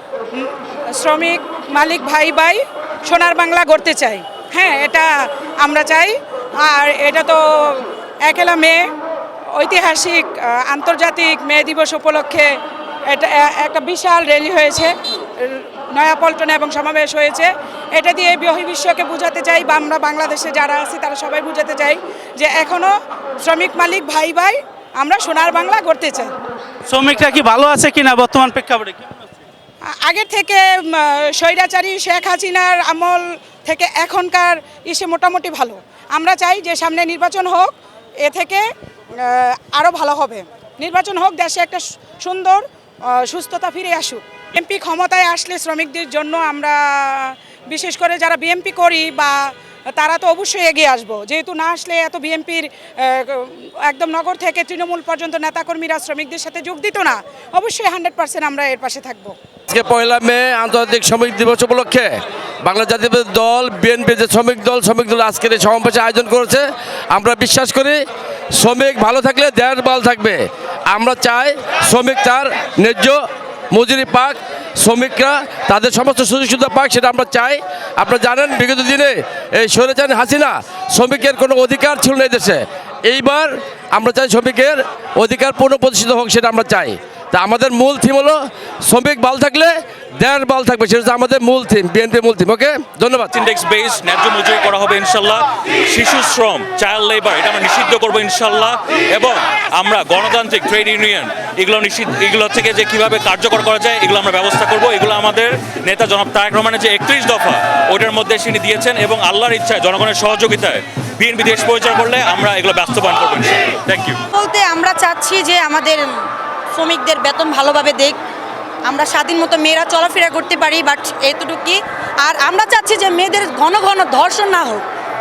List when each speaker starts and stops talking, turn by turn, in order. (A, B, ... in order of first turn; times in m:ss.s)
0:00.4-0:08.9 A
0:09.5-0:12.5 A
0:13.1-0:26.3 A
0:26.9-0:29.1 B
0:30.0-0:38.7 A
0:39.2-0:59.3 A
0:59.7-1:02.1 C
1:02.6-1:08.0 C
1:08.5-1:33.3 C
1:33.3-1:54.2 D
1:54.3-1:56.2 E
1:56.7-1:58.2 E
1:58.8-2:04.8 E